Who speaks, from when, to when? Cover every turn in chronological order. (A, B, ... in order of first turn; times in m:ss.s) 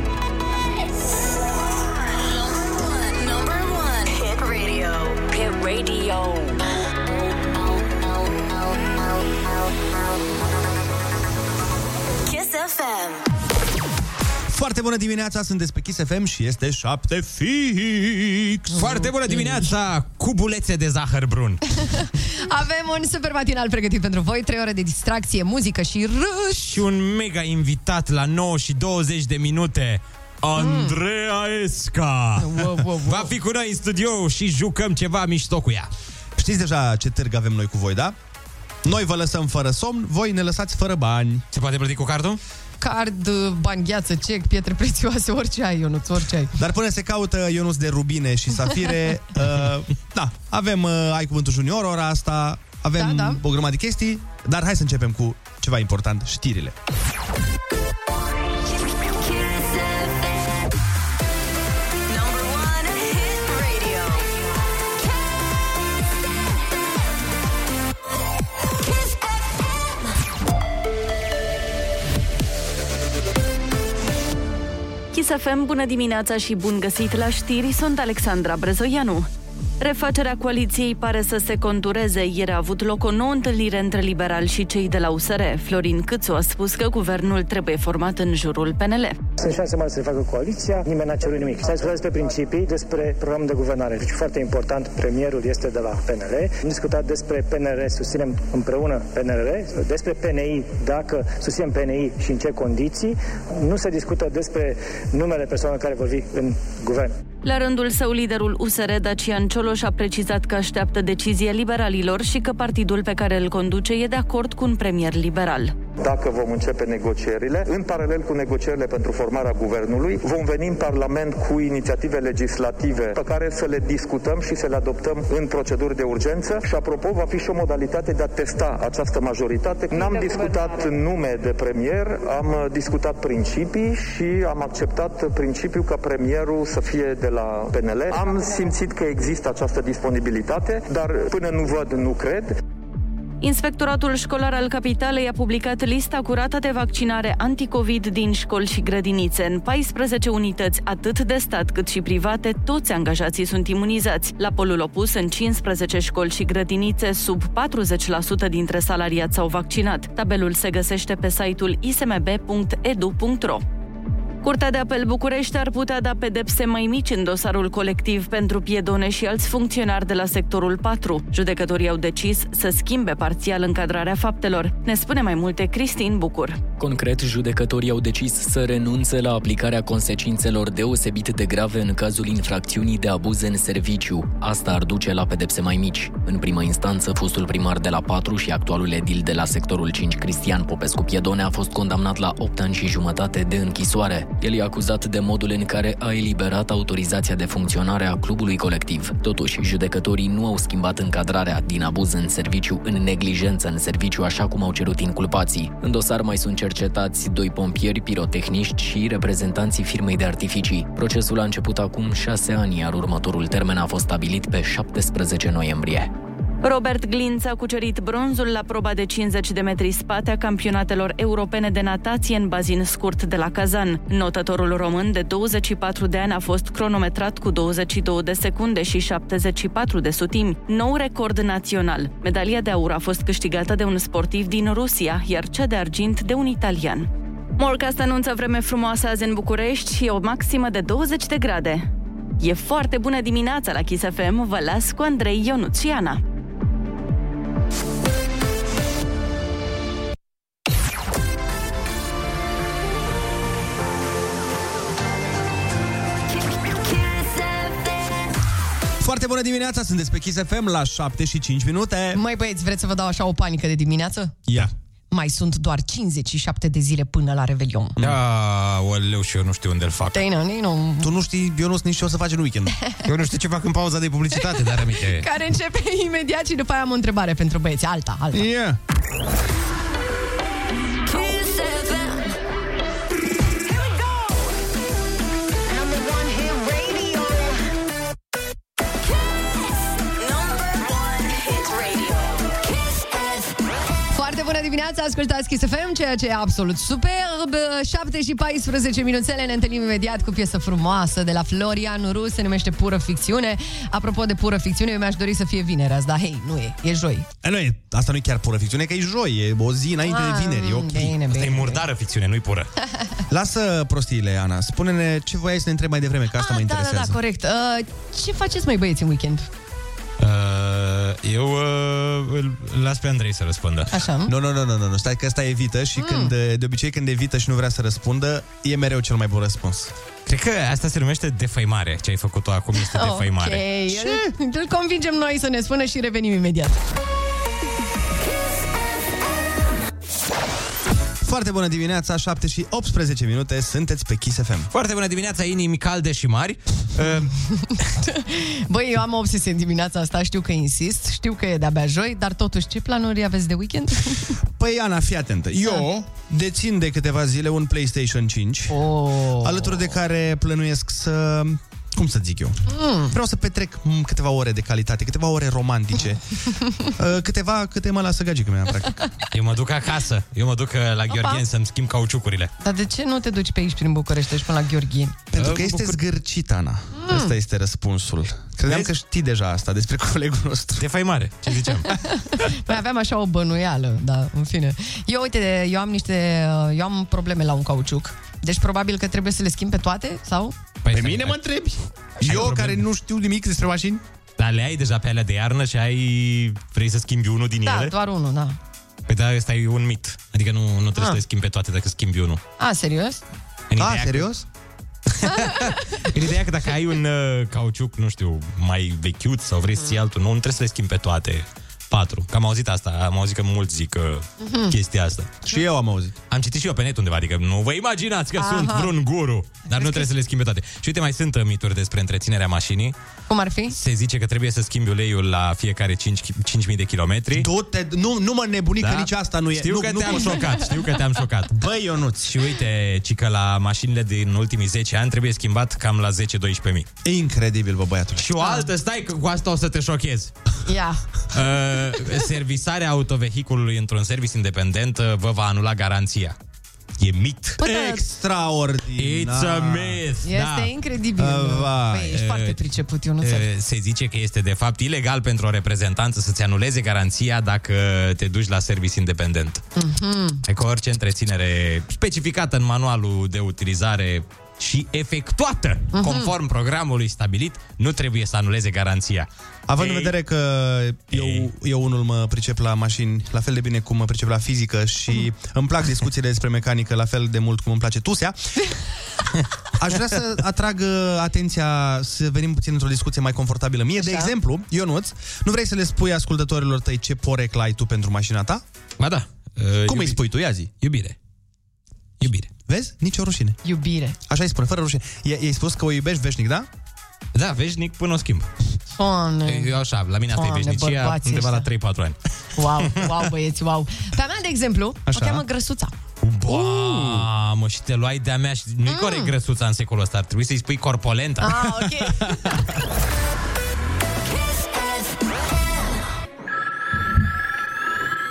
0:02.2-0:06.6 A
0:12.2-0:13.2 A
0:14.5-0:17.7 B
0:17.5-0:21.6 C
0:18.7-0:19.7 D
0:21.8-0:26.8 D
0:26.6-0:35.9 C
0:30.6-0:31.0 D
0:32.4-0:33.3 D
0:36.4-0:38.2 B
0:38.8-0:41.4 B
0:41.5-0:42.4 C
0:42.8-0:46.5 D
0:46.6-0:56.8 B
0:53.0-0:53.4 D
0:58.8-1:00.6 A
1:02.1-1:04.4 A
1:08.9-1:09.6 A
1:15.1-1:19.3 E
1:19.8-1:29.2 E
1:29.4-1:47.2 F
1:47.4-1:55.7 E
1:56.0-2:22.6 G
2:23.4-2:43.6 E
2:44.4-2:56.6 E
2:56.8-3:36.1 H
3:36.6-4:01.8 E
4:02.4-4:06.2 E
4:16.4-4:18.2 A
4:19.0-4:22.2 B
4:22.1-4:24.4 D
4:24.5-4:24.7 B
4:25.1-4:28.0 D
4:28.0-4:30.3 C
4:30.1-4:31.1 D
4:31.0-4:32.7 B
4:33.0-4:35.2 C
4:35.1-4:38.4 D
4:38.3-4:38.8 B
4:41.0-4:42.3 A
4:46.0-4:47.0 A
4:50.2-4:53.5 A
4:54.1-5:07.3 D
5:07.4-5:11.2 B
5:10.0-5:11.8 D
5:11.3-5:12.7 C
5:13.3-5:17.2 B
5:16.3-5:19.5 D
5:20.2-5:23.9 C
5:23.9-5:24.3 D
5:24.2-5:29.9 B
5:26.0-5:26.3 D
5:30.2-5:33.7 C
5:32.8-5:36.8 D
5:33.9-5:34.3 B
5:41.2-5:44.7 B
5:44.7-5:47.3 C
5:47.6-5:54.4 D
5:54.5-5:58.8 B
5:58.7-5:59.8 D
5:59.4-6:06.2 B
6:02.7-6:03.1 D
6:06.7-6:09.1 B
6:09.3-6:12.5 C
6:11.1-6:11.4 D
6:12.6-6:15.1 D
6:15.3-6:20.9 B
6:15.4-6:16.0 C
6:16.9-6:17.3 D
6:20.8-6:21.9 C
6:22.0-6:30.5 D
6:30.8-6:31.4 C
6:30.9-6:34.0 B
6:32.2-6:32.8 C
6:34.4-6:37.9 C
6:37.6-6:38.6 D
6:39.1-6:42.4 C
6:42.6-6:43.2 D
6:43.7-6:44.3 C
6:43.8-6:44.4 B
6:45.1-6:55.4 C
6:54.4-6:54.7 D
6:55.4-6:56.1 B
6:56.3-7:02.9 C
6:58.4-6:58.9 D
6:59.7-7:00.1 D
7:03.3-7:03.7 D
7:03.7-7:07.5 C
7:07.3-7:10.6 B
7:08.8-7:11.6 C
7:11.5-7:12.3 B
7:12.2-7:16.9 C
7:17.0-7:18.3 B
7:18.2-7:20.3 C
7:18.4-7:18.7 D
7:20.6-7:21.0 D
7:21.3-7:26.4 C
7:27.0-7:27.6 C
7:27.6-7:28.0 D
7:27.6-7:30.0 B
7:29.0-7:30.7 C
7:30.2-7:33.4 D
7:31.2-7:32.2 B
7:32.1-7:32.6 C
7:33.2-7:39.6 C
7:39.8-7:40.4 D
7:40.4-7:50.1 C
7:45.9-7:46.3 D
7:49.7-7:58.4 B
7:51.1-7:51.5 C
7:59.8-8:08.6 B
8:04.0-8:04.3 D
8:09.0-8:10.2 C
8:09.8-8:10.7 B
8:10.8-8:11.2 C
8:12.2-8:12.5 C
8:12.7-8:13.6 B
8:13.6-8:14.2 D
8:14.3-8:16.7 B
8:17.3-8:18.5 C
8:18.9-8:19.7 D
8:19.5-8:22.2 C
8:20.3-8:21.7 D
8:22.6-8:25.9 D
8:22.8-8:23.1 C
8:25.1-8:25.4 B
8:26.2-8:31.7 C
8:26.5-8:27.2 D
8:28.9-8:29.3 D
8:31.4-8:32.6 D
8:32.2-8:32.4 B
8:34.4-8:35.1 A